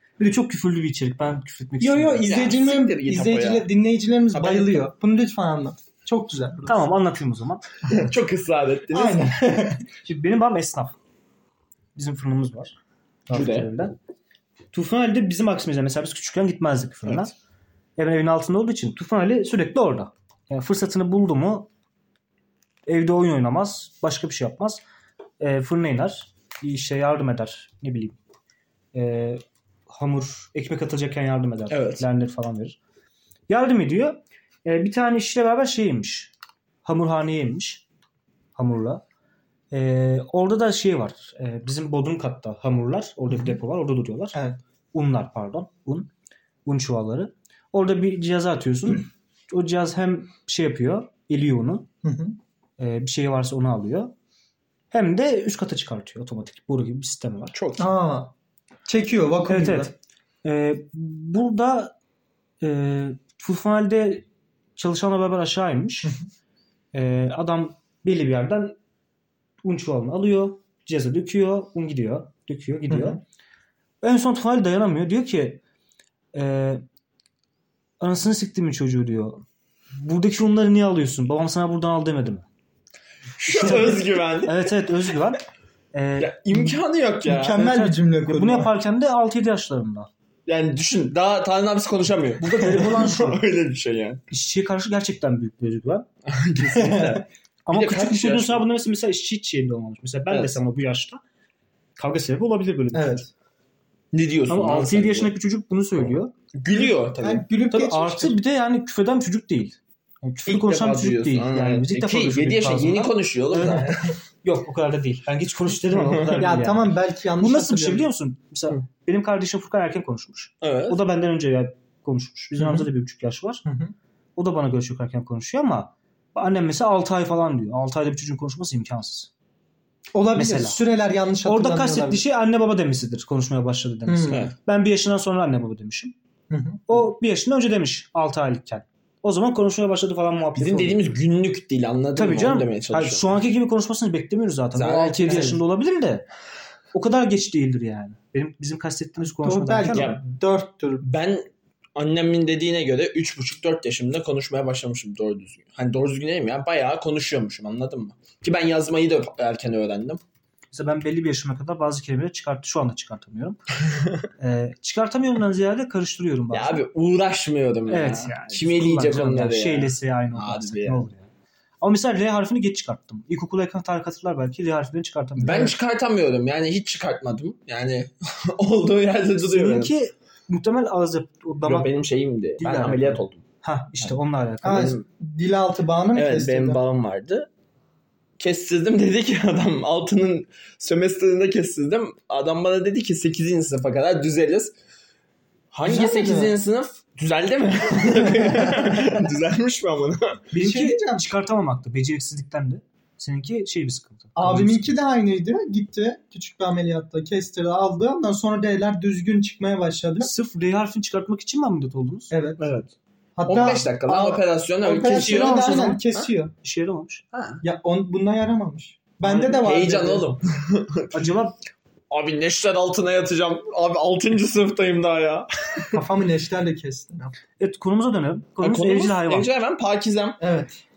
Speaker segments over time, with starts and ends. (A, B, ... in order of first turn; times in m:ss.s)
0:00.2-0:02.3 A
0:01.8-0:06.8 B
0:02.2-0:03.7 C
0:04.3-0:04.7 C
0:06.6-0:07.6 A
0:07.8-0:09.3 C
0:08.9-0:09.8 B
0:10.0-0:11.0 A
0:11.9-0:12.8 A
0:13.3-0:13.9 A
0:13.3-0:13.7 C
0:14.7-0:17.3 A
0:18.0-0:21.7 A
0:22.8-0:24.8 A
0:25.4-0:28.2 A
0:28.9-0:32.8 A
0:31.7-0:32.0 C
0:33.5-0:36.3 A
0:36.8-0:37.8 A
0:38.5-0:39.0 A
0:39.7-0:44.4 A
0:44.3-0:44.6 B
0:44.9-0:46.1 A
0:46.6-0:51.9 A
0:52.0-0:52.4 B
0:52.8-0:54.1 A
0:54.9-0:57.6 A
0:57.5-0:57.9 C
0:57.8-0:58.3 B
0:58.8-0:59.9 B
0:59.5-1:01.9 A
1:02.6-1:04.2 A
1:04.8-1:06.2 A
1:06.9-1:08.8 A
1:09.6-1:13.2 A
1:12.9-1:13.2 B
1:14.0-1:15.6 A
1:16.3-1:16.8 A
1:18.0-1:22.4 A
1:23.4-1:24.7 C
1:23.4-1:25.4 A
1:25.9-1:26.7 A
1:26.2-1:27.6 C
1:27.2-1:28.7 B
1:27.6-1:30.1 A
1:30.4-1:34.2 C
1:32.4-1:33.4 A
1:34.3-1:36.1 A
1:36.2-1:38.6 C
1:36.7-1:37.2 B
1:37.6-1:41.2 A
1:40.3-1:40.5 C
1:42.0-1:43.3 A
1:42.9-1:43.3 B
1:44.1-1:45.3 C
1:44.5-1:46.3 A
1:46.5-1:47.4 C
1:46.7-1:48.4 B
1:47.7-2:03.6 A
1:50.4-1:54.1 C
1:55.9-1:56.4 C
1:56.3-1:58.1 B
2:00.6-2:01.0 C
2:03.6-2:03.9 B
2:04.4-2:09.3 A
2:10.1-2:12.2 B
2:10.4-2:10.8 A
2:11.4-2:16.1 A
2:14.0-2:14.4 B
2:14.3-2:14.5 C
2:16.5-2:17.0 B
2:16.9-2:21.0 A
2:20.5-2:23.4 C
2:22.2-2:26.2 A
2:24.7-2:25.6 C
2:25.2-2:25.6 B
2:26.9-2:30.1 A
2:29.4-2:31.0 B
2:29.9-2:30.2 C
2:31.0-2:40.2 C
2:40.7-2:43.6 A
2:44.4-2:46.8 A
2:46.5-2:51.1 C
2:47.9-2:51.3 A
2:51.8-2:55.7 A
2:55.4-2:59.9 C
2:59.4-3:01.9 A
3:01.6-3:03.4 C
3:02.6-3:05.0 A
3:04.6-3:06.8 B
3:04.7-3:05.0 C
3:06.1-3:07.5 C
3:08.4-3:14.7 C
3:15.7-3:20.4 C
3:15.8-3:16.5 B
3:18.1-3:19.0 B
3:20.5-3:24.9 A
3:20.6-3:21.3 B
3:24.4-3:30.3 B
3:30.2-3:32.3 A
3:32.3-3:32.7 B
3:32.6-3:32.9 C
3:33.4-3:36.5 B
3:33.4-3:36.3 C
3:35.0-3:36.0 A
3:36.6-3:37.2 A
3:37.3-3:37.6 C
3:37.6-3:40.2 B
3:39.5-3:41.4 C
3:41.1-3:41.6 A
3:42.1-3:46.0 C
3:45.9-3:47.3 B
3:47.6-3:49.5 A
3:48.6-3:50.4 C
3:50.4-3:50.8 B